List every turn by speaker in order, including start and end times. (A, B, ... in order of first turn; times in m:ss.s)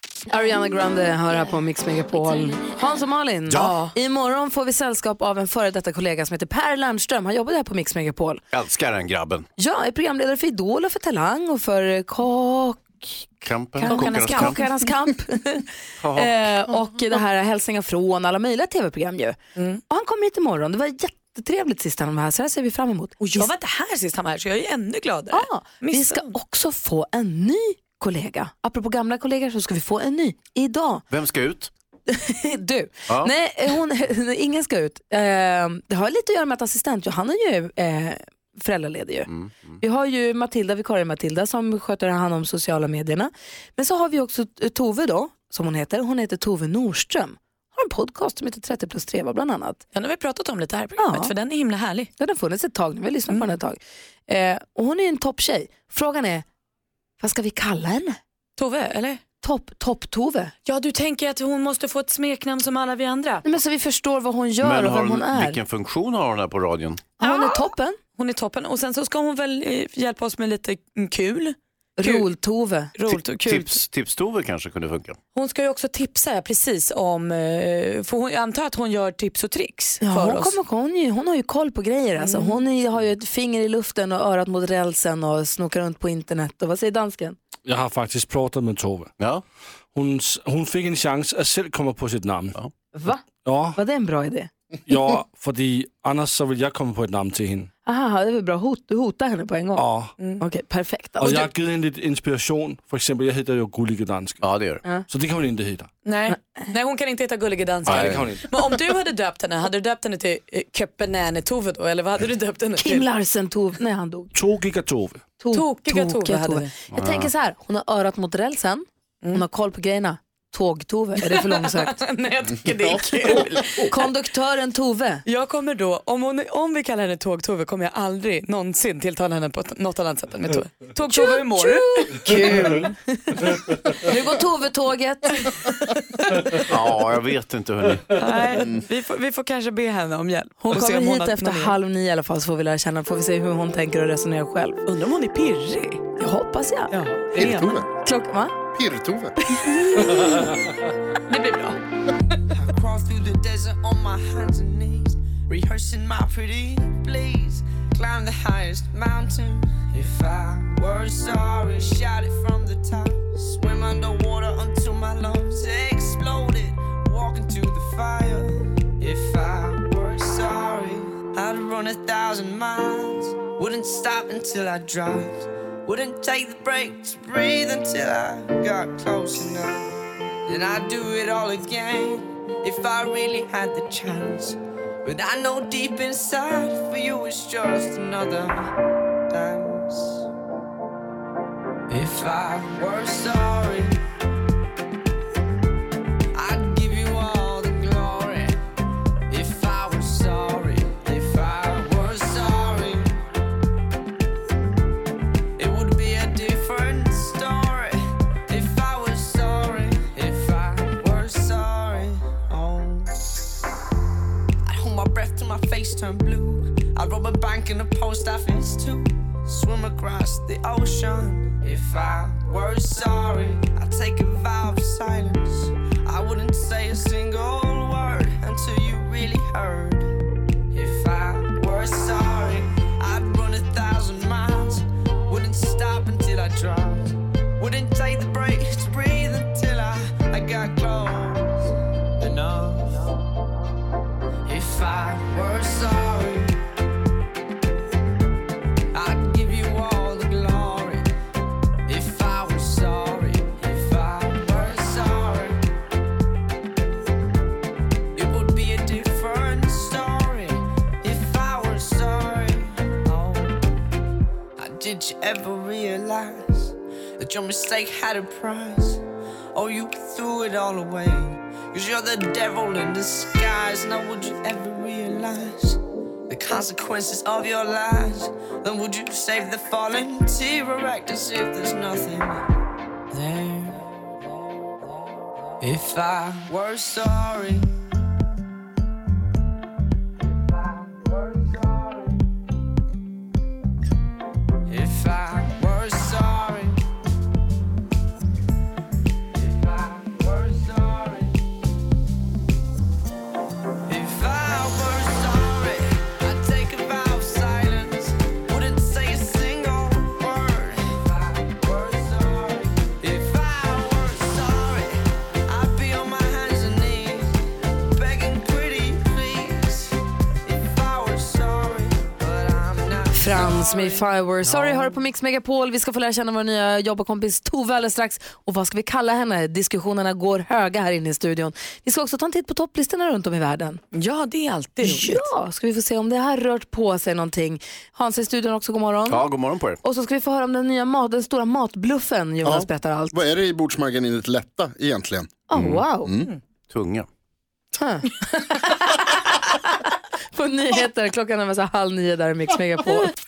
0:00.3-0:08.4 A
0:03.5-0:03.8 B
0:08.5-0:09.4 B
0:09.6-0:19.4 A
0:13.4-0:14.6 B
0:13.9-0:14.7 C
0:16.0-0:16.5 B
0:19.6-0:19.8 C
0:19.9-0:23.5 A
0:23.2-0:26.3 C
0:25.3-0:31.0 A
0:31.1-0:31.7 B
0:32.1-0:39.3 A
0:39.3-0:39.8 B
0:39.8-0:49.8 A
0:49.9-0:52.1 C
0:51.0-0:51.3 A
0:52.2-0:56.4 A
0:57.2-0:58.2 A
0:58.6-0:59.2 C
0:59.4-1:00.5 A
1:00.6-1:03.4 C
1:03.4-1:05.6 A
1:04.6-1:07.0 B
1:07.2-1:08.0 A
1:07.2-1:07.6 C
1:08.2-1:12.2 C
1:12.0-1:12.9 A
1:12.9-1:13.8 C
1:13.2-1:15.2 B
1:15.3-1:20.6 C
1:20.0-1:27.4 A
1:22.2-1:22.6 C
1:27.6-1:29.1 D
1:29.2-1:29.4 B
1:29.9-1:32.6 D
1:32.9-1:33.2 A
1:33.4-1:33.8 D
1:33.7-1:34.5 A
1:34.9-1:37.7 D
1:37.8-1:39.9 A
1:39.8-1:40.1 D
1:40.4-1:41.5 A
1:41.2-1:44.4 D
1:44.4-1:44.8 B
1:45.1-1:45.9 D
1:46.0-1:53.1 C
1:47.8-1:48.2 B
1:47.8-1:48.5 D
1:52.8-1:54.3 A
1:54.3-1:55.3 D
1:55.4-2:02.0 A
1:55.5-1:56.7 C
1:56.9-1:57.3 B
2:01.2-2:04.0 C
2:03.8-2:05.2 A
2:05.2-2:12.5 C
2:11.1-2:15.7 A
2:12.5-2:12.9 D
2:16.7-2:18.1 B
2:18.2-2:21.7 C
2:20.6-2:24.8 A
2:24.9-2:26.0 C
2:26.2-2:26.9 A
2:26.9-2:27.7 C
2:27.3-2:27.9 E
2:27.9-2:28.5 A
2:28.7-2:29.3 E
2:29.5-2:30.4 A
2:30.0-2:30.5 C
2:31.3-2:31.8 C
2:32.5-2:59.9 F
3:00.5-3:08.7 F
3:09.3-3:10.2 F
3:11.9-3:14.0 F
3:16.3-3:18.6 F
3:19.3-3:23.2 F
3:25.6-3:33.2 F
3:34.6-3:50.1 F
3:50.7-4:03.0 F
4:04.4-4:06.5 F
4:08.9-4:11.1 F
4:11.9-4:15.6 F
4:18.2-4:23.6 F
4:24.6-4:29.0 F
4:29.5-4:42.4 F
4:43.1-4:43.8 F
4:45.6-4:47.7 F
4:50.4-4:52.2 F
4:54.7-4:56.8 F
4:59.3-5:01.4 F
5:03.9-5:17.4 F
5:17.9-5:19.9 F
5:20.4-5:24.1 F
5:23.1-5:33.8 A
5:33.9-5:35.3 C
5:34.8-5:39.2 A
5:39.1-5:39.8 B
5:39.8-5:43.2 A
5:42.4-5:45.5 E
5:45.5-5:46.1 A
5:45.5-5:45.9 B
5:46.0-5:46.3 E
5:46.7-5:47.1 B
5:47.7-5:49.1 A
5:50.3-5:53.1 A